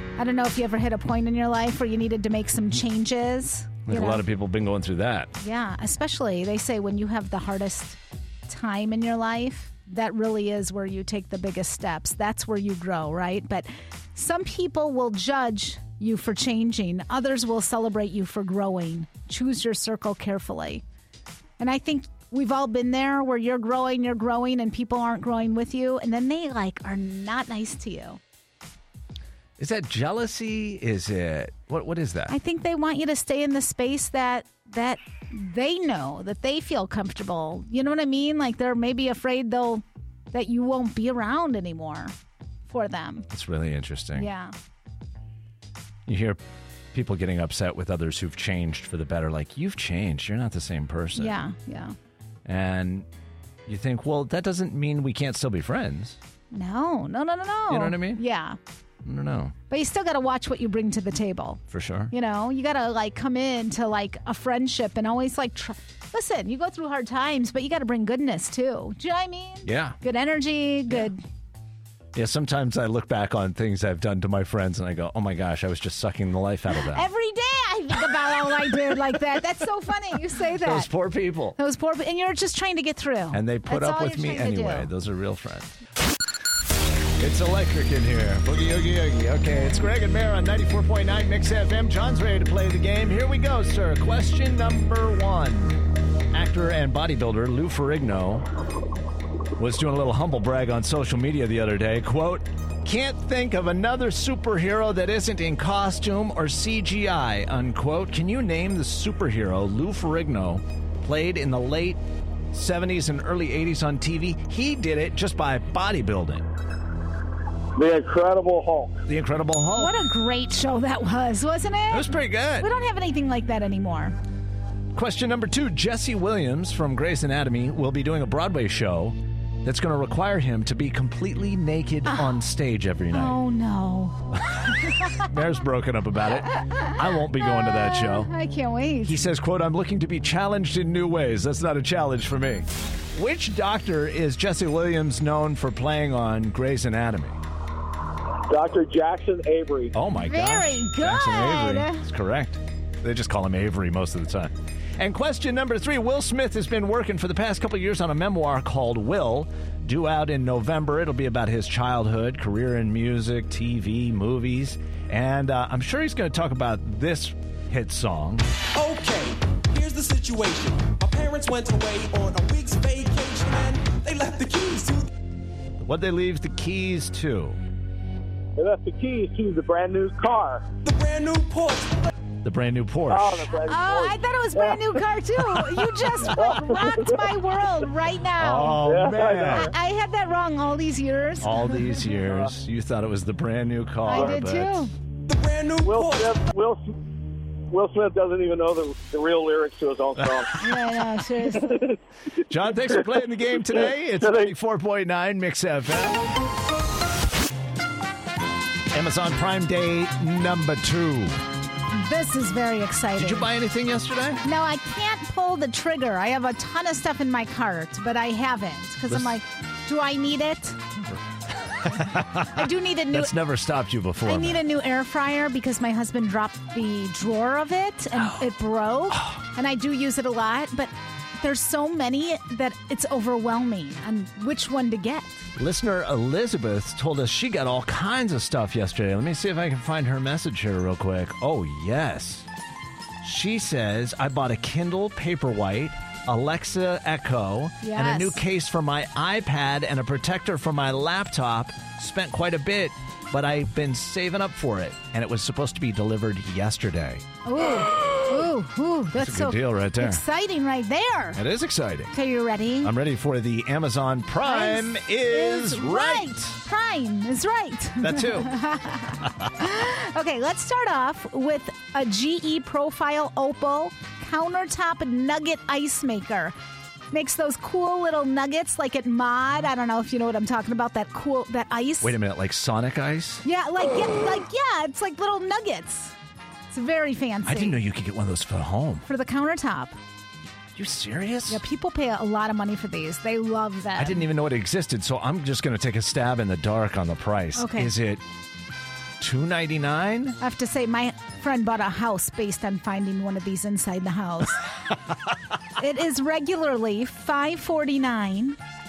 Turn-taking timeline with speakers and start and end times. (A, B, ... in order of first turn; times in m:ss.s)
0:00.2-0:04.2 A
0:03.9-0:05.3 B
0:05.4-0:20.8 A
0:21.6-0:28.2 A
0:29.6-0:32.4 B
0:32.3-0:42.1 A
0:42.7-0:43.3 A
0:43.3-0:44.3 B
0:44.2-0:44.5 A
0:46.1-0:46.4 B
0:46.9-0:51.4 B
0:51.2-0:52.0 A
0:52.4-0:53.1 B
0:53.7-0:56.2 B
0:56.5-0:58.6 A
0:57.7-0:58.2 B
0:59.0-0:59.6 B
0:59.7-1:11.2 A
1:01.7-1:02.1 B
1:09.6-1:10.0 B
1:12.1-1:17.1 B
1:16.9-1:20.9 A
1:20.6-1:21.6 B
1:21.6-1:24.9 A
1:23.3-1:25.7 B
1:27.2-1:35.8 B
1:36.3-1:38.5 B
1:39.6-1:52.0 B
1:52.5-1:56.5 B
1:57.8-1:59.0 C
1:59.1-1:59.9 B
1:59.8-2:04.2 A
2:01.9-2:02.7 B
2:04.9-2:13.4 B
2:12.1-2:12.4 A
2:13.1-2:14.3 A
2:14.5-2:18.3 B
2:14.8-2:15.2 A
2:16.5-2:19.2 A
2:19.0-2:27.4 B
2:28.5-2:29.9 C
2:29.9-2:48.5 B
2:30.1-2:32.0 A
2:48.7-2:55.1 D
2:55.8-2:57.6 B
2:58.6-3:00.6 C
3:00.8-3:02.1 D
3:02.4-3:03.5 B
3:03.1-3:05.0 C
3:03.7-3:12.1 A
3:06.2-3:06.6 B
3:06.2-3:07.3 C
3:08.4-3:09.7 B
3:08.8-3:09.7 C
3:11.4-3:14.9 B
3:14.0-3:14.9 A
3:15.3-3:16.4 D
3:15.8-3:16.9 C
3:17.7-3:20.6 C
3:20.6-3:21.8 A
3:21.6-3:22.0 C
3:22.5-3:26.2 B
3:23.7-3:24.5 C
3:28.9-3:31.4 B
3:31.9-3:33.5 A
3:33.2-3:34.4 B
3:34.4-3:40.8 A
3:39.1-3:39.3 B
3:41.0-3:44.6 B
3:42.5-3:43.4 A
3:44.2-3:55.4 A
3:48.2-3:48.5 B
3:49.1-3:49.4 B
3:55.6-4:02.5 B
4:03.2-4:17.2 B
4:07.8-4:08.4 A
4:17.4-4:21.4 A
4:19.2-4:20.2 B
4:21.4-4:22.1 B
4:22.1-4:22.9 A
4:22.8-4:26.6 B
4:24.4-4:36.6 A
4:28.0-4:28.5 B
4:29.2-4:29.5 B
4:37.1-4:42.2 A
4:42.0-4:43.4 B
4:43.4-4:46.2 A
4:46.7-4:47.8 A
4:47.4-4:49.0 B
4:49.1-4:50.0 A
4:50.8-4:51.6 B
4:51.5-4:54.3 A
4:54.0-4:58.2 B
4:57.6-4:57.9 A
4:59.2-5:00.4 B
5:00.4-5:04.7 A
5:05.8-5:08.6 A